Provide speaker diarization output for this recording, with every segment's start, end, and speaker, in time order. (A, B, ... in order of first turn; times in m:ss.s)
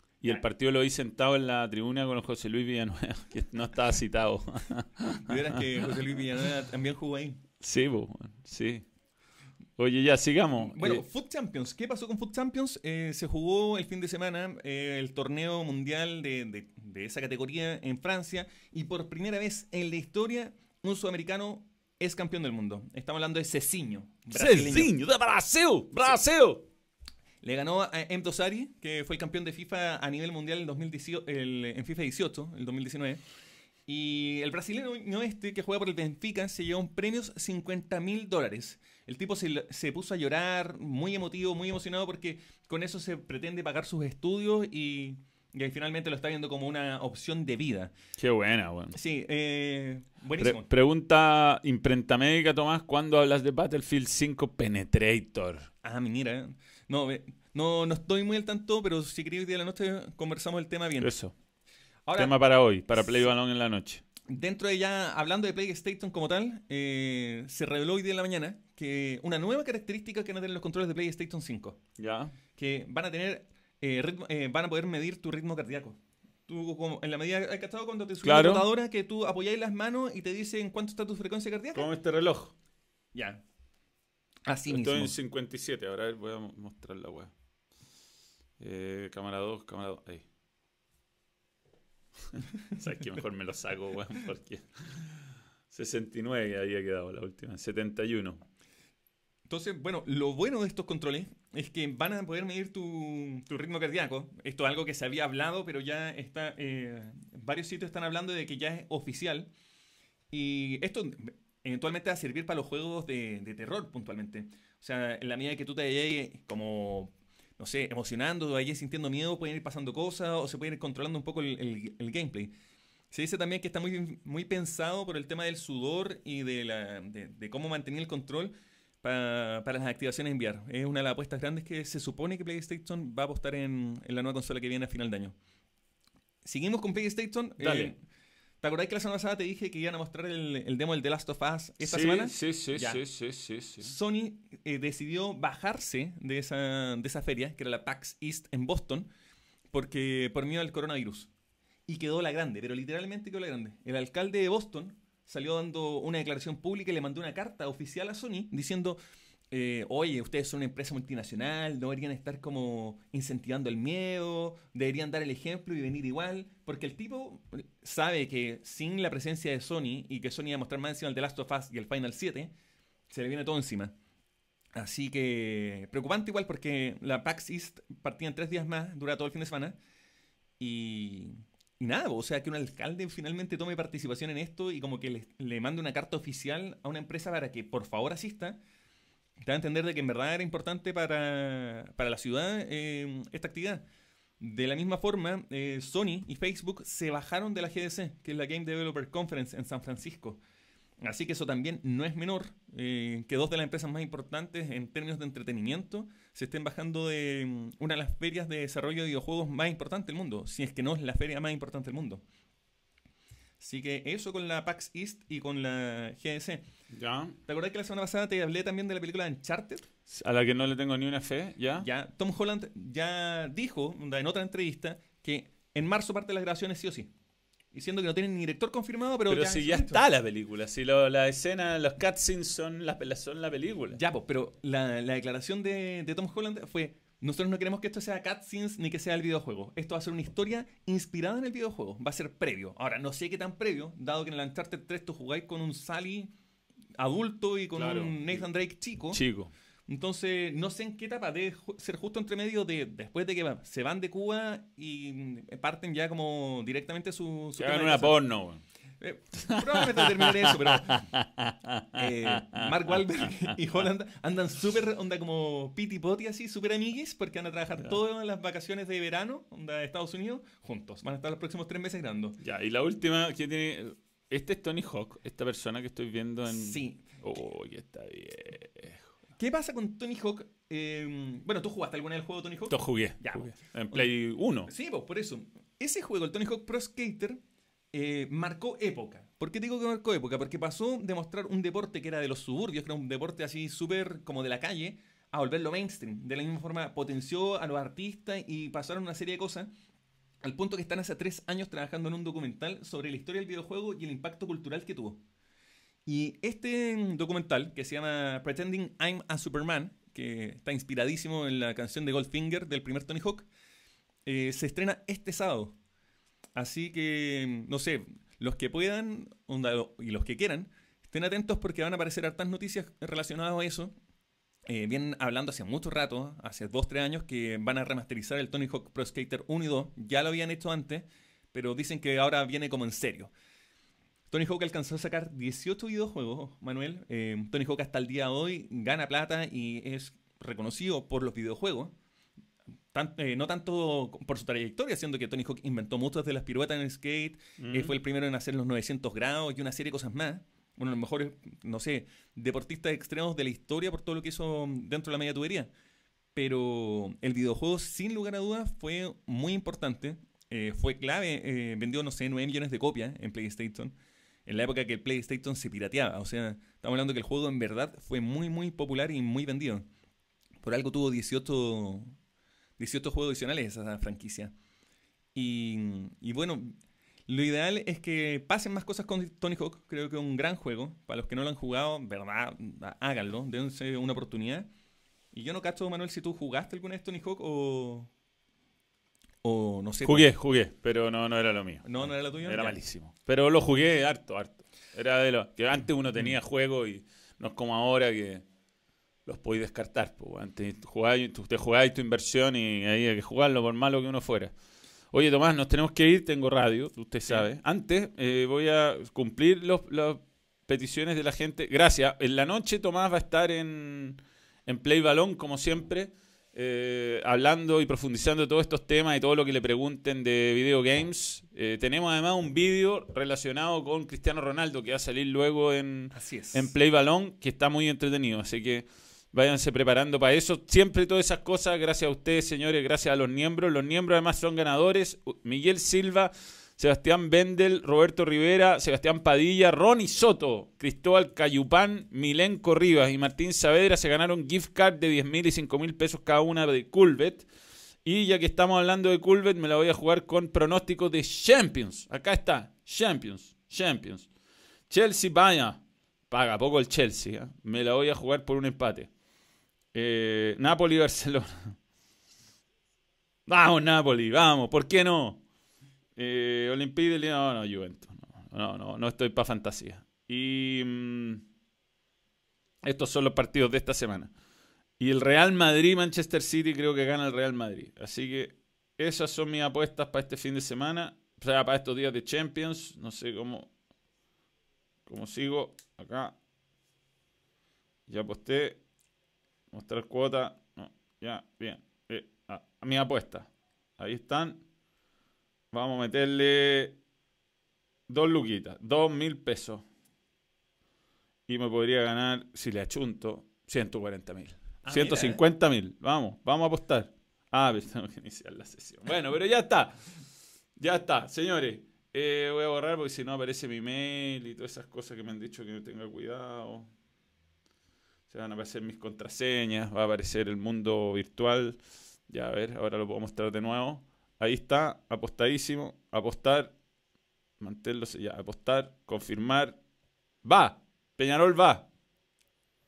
0:00.2-0:05.9 A
0:05.2-0:07.4 B
0:07.6-0:08.9 A
0:09.8-0:11.0 A
0:10.6-0:24.9 B
0:24.3-0:26.6 A
0:27.4-0:33.2 B
0:33.9-0:47.9 B
0:48.2-0:49.0 A
0:48.9-0:50.7 B
0:50.4-0:55.7 A
0:55.8-1:01.1 B
1:01.0-1:01.3 A
1:02.0-1:02.4 B
1:02.2-1:04.0 A
1:03.0-1:03.3 B
1:04.3-1:11.8 B
1:12.0-1:12.4 A
1:12.6-1:21.9 B
1:18.2-1:18.7 A
1:21.7-1:22.6 A
1:23.1-1:23.4 B
1:24.4-1:25.1 B
1:24.7-1:27.3 A
1:28.6-1:30.2 A
1:32.3-1:35.1 A
1:35.7-1:38.4 A
1:39.4-1:49.5 B
1:50.3-2:02.5 B
2:03.1-2:15.3 B
2:16.4-2:18.0 B
2:17.6-2:17.9 A
2:18.6-2:23.0 B
2:21.8-2:23.9 A
2:23.8-2:29.1 B
2:29.7-2:31.3 B
2:31.9-2:39.0 B
2:39.5-2:52.5 B
2:53.1-2:54.0 B
2:54.7-2:59.8 B
3:00.6-3:08.6 B
3:09.4-3:13.8 B
3:14.4-3:20.4 B
3:21.0-3:32.2 B
3:33.6-3:36.6 B
3:36.9-3:37.4 A
3:37.4-3:39.9 B
3:40.1-3:41.9 A
3:41.8-3:47.1 B
3:47.7-3:50.0 B
3:49.3-3:54.0 A
3:53.9-4:06.3 B
4:07.0-4:09.2 B
4:07.7-4:08.4 A
4:09.1-4:09.5 A
4:09.9-4:18.2 B
4:17.6-4:18.6 A
4:19.0-4:21.0 B
4:19.4-4:23.5 A
4:22.0-4:32.4 B
4:32.4-4:39.1 A
4:36.5-4:37.0 B
4:39.4-4:44.1 B
4:42.7-4:44.7 A
4:44.7-4:47.4 B
4:47.9-4:59.7 B
5:00.4-5:05.2 B
5:06.0-5:13.5 B
5:14.2-5:15.8 B
5:16.6-5:23.9 B
5:24.6-5:33.3 B
5:34.3-5:41.9 B
5:42.9-5:55.7 B
5:47.6-5:47.9 A
5:56.3-6:04.0 B
6:04.4-6:09.9 B
6:10.6-6:12.2 B
6:12.8-6:14.5 B
6:15.3-6:16.7 B
6:17.3-6:24.7 B
6:25.3-6:28.1 B
6:29.4-6:30.3 B
6:30.0-6:38.4 A
6:31.8-6:32.8 B
6:39.3-6:44.5 A
6:45.1-7:27.5 A
7:06.1-7:06.7 B
7:28.0-7:34.3 A
7:34.9-7:39.1 A
7:39.9-7:41.8 A
7:43.5-7:45.4 A
7:46.2-7:51.4 A
7:52.8-7:54.3 A
7:55.0-8:03.7 A
8:05.0-8:06.4 A
8:08.1-8:08.8 A
8:09.7-8:14.6 A
8:15.7-8:17.0 A
8:18.1-8:19.8 A
8:21.5-8:30.0 A
8:24.8-8:25.4 B
8:30.8-8:36.9 A
8:38.3-8:46.7 A
8:47.6-8:49.8 A
8:50.4-8:51.9 A